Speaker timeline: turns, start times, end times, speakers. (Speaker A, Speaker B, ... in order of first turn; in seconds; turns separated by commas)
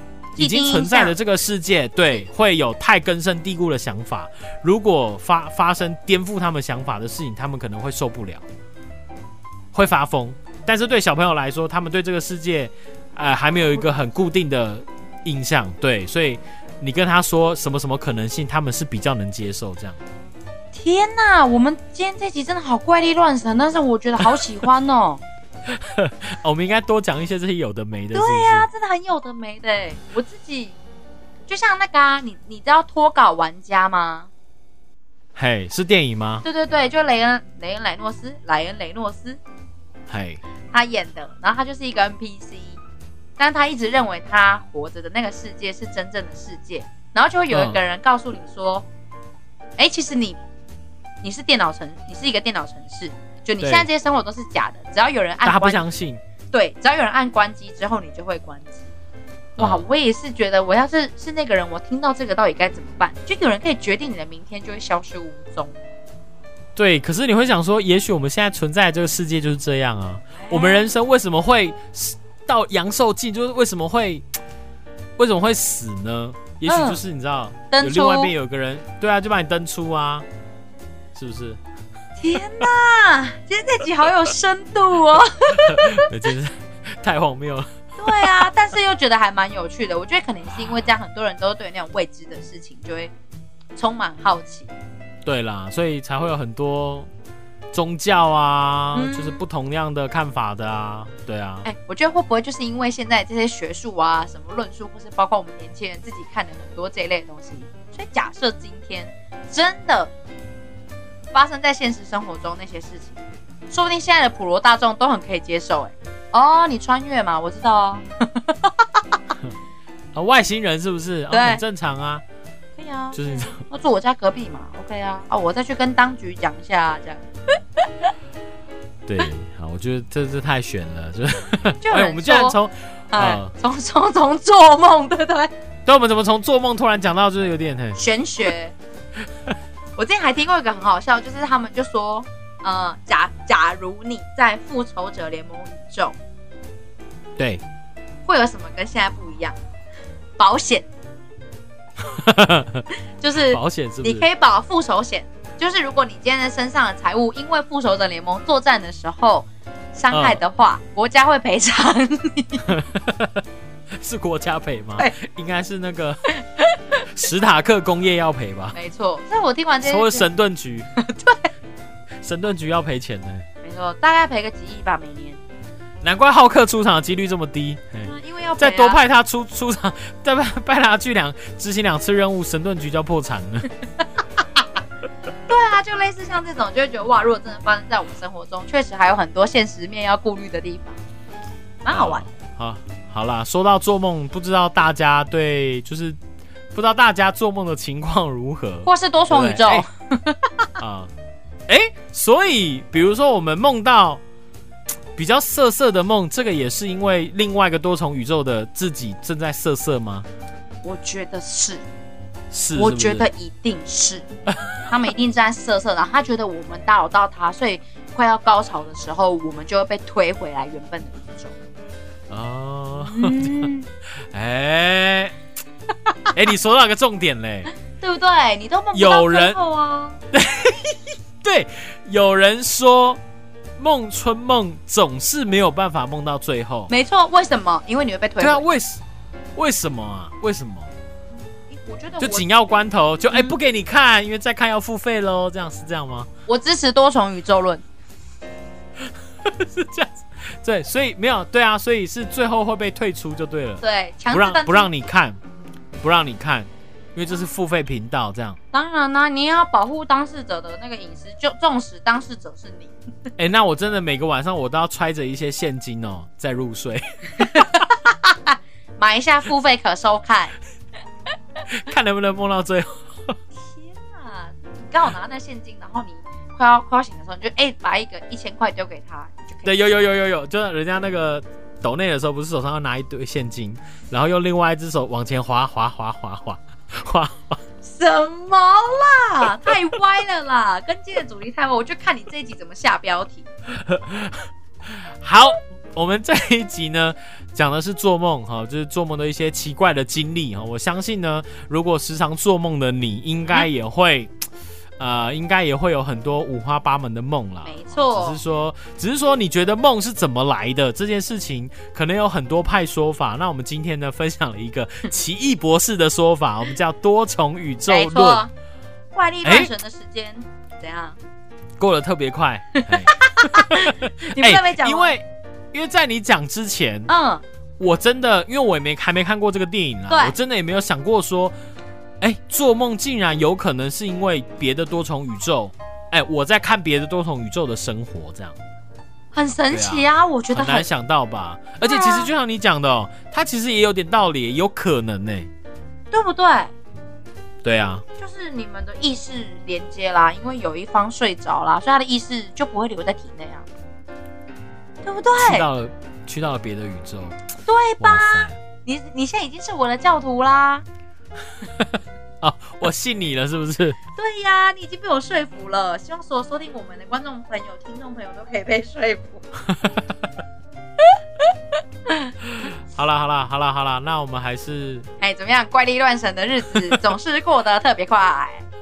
Speaker A: 0.3-8.4, Speaker B: 0.4-1.1, Speaker A: 9.7-20.0, Speaker B: 20.7-25.2, Speaker A: 25.7-28.7, Speaker B: 28.1-30.8, Speaker B: 31.5-34.3, Speaker A: 35.4-36.4, Speaker B: 36.4-39.4, Speaker A: 40.1-40.4, Speaker B: 40.7-42.8, Speaker B: 43.4-48.9, Speaker A: 47.5-47.8, Speaker B: 49.8-50.4, Speaker B: 51.2-55.8, Speaker A: 53.6-53.9, Speaker A: 55.4-56.2, Speaker B: 56.5-58.9, Speaker A: 59.6-59.8, Speaker B: 59.6-65.8, Speaker A: 66.8-74.2, Speaker B: 70.4-70.9, Speaker A: 75.2-80.2, Speaker B: 76.7-77.0, Speaker B: 77.7-78.3, Speaker A: 81.1-81.6, Speaker B: 82.2-86.1, Speaker A: 85.5-88.3, Speaker B: 88.0-93.1, Speaker B: 93.8-94.7, Speaker A: 95.2-97.1, Speaker A: 97.7-101.7, Speaker B: 98.9-99.4, Speaker B: 101.6-110.1, Speaker B: 111.3-113.2, Speaker B: 113.7-119.0, Speaker A: 120.1-122.2, Speaker B: 121.3-121.6, Speaker B: 122.8-127.2, Speaker A: 123.1-123.6, Speaker B: 127.8-128.1, Speaker A: 129.1-133.5, Speaker B: 131.8-132.6, Speaker B: 133.1-135.5, Speaker A: 135.8-138.0, Speaker B: 138.0-138.7, Speaker B: 140.0-146.2, Speaker B: 148.2-149.6, Speaker B: 150.4-150.9, Speaker A: 152.0-152.8, Speaker B: 153.2-162.7, Speaker A: 153.4-154.2, Speaker A: 160.1-160.4, Speaker A: 162.6-163.4, Speaker A: 164.0-166.2, Speaker B: 166.6-167.0, Speaker A: 167.1-168.8, Speaker B: 168.7-170.3, Speaker A: 169.8-170.9, Speaker B: 170.9-171.5, Speaker A: 172.2-173.4, Speaker B: 173.6-175.4, Speaker A: 176.0-183.7, Speaker B: 178.0-179.0, Speaker B: 185.5-191.0, Speaker B: 191.8-192.2, Speaker A: 191.9-196.2, Speaker A: 196.7-199.8, Speaker B: 198.8-200.7, Speaker A: 200.8-201.1, Speaker A: 201.7-204.2, Speaker A: 205.2-210.3, Speaker B: 210.8-211.8, Speaker A: 212.5-213.3, Speaker B: 212.7-214.3, Speaker B: 214.9-221.5, Speaker A: 222.3-225.3, Speaker B: 222.9-223.9, Speaker A: 226.3-227.7, Speaker B: 228.0-230.2, Speaker A: 228.9-229.6, Speaker A: 230.3-233.2, Speaker A: 233.8-236.9, Speaker B: 236.9-238.7, Speaker A: 238.4-239.0, Speaker A: 239.6-240.9, Speaker B: 241.7-242.4, Speaker A: 242.2-246.3, Speaker B: 246.5-247.8, Speaker A: 249.0-255.4, Speaker B: 253.8-254.9, Speaker A: 256.0-258.6, Speaker B: 258.7-262.9, Speaker A: 263.4-267.7, Speaker B: 267.4-270.5, Speaker A: 271.7-273.4, Speaker B: 273.6-280.0, Speaker A: 279.6-287.6, Speaker B: 287.8-293.5, Speaker A: 293.7-304.3, Speaker A: 305.0-318.4, Speaker B: 307.6-308.4, Speaker B: 317.9-318.5, Speaker B: 319.1-321.2, Speaker A: 319.4-319.7, Speaker A: 321.8-327.1, Speaker B: 322.7-325.1, Speaker B: 327.1-327.4, Speaker A: 327.8-331.5, Speaker B: 330.1-330.4, Speaker A: 332.2-338.6, Speaker B: 339.3-340.9, Speaker A: 339.7-345.5, Speaker B: 341.9-342.3, Speaker B: 346.1-346.7, Speaker A: 347.6-348.0, Speaker B: 348.2-353.6, Speaker B: 355.0-355.6, Speaker A: 355.4-357.4, Speaker B: 357.6-360.8, Speaker A: 358.0-358.6, Speaker A: 361.8-364.0, Speaker B: 364.1-369.6, Speaker A: 369.7-370.0, Speaker B: 372.1-372.3, Speaker A: 372.5-375.1, Speaker B: 375.2-378.6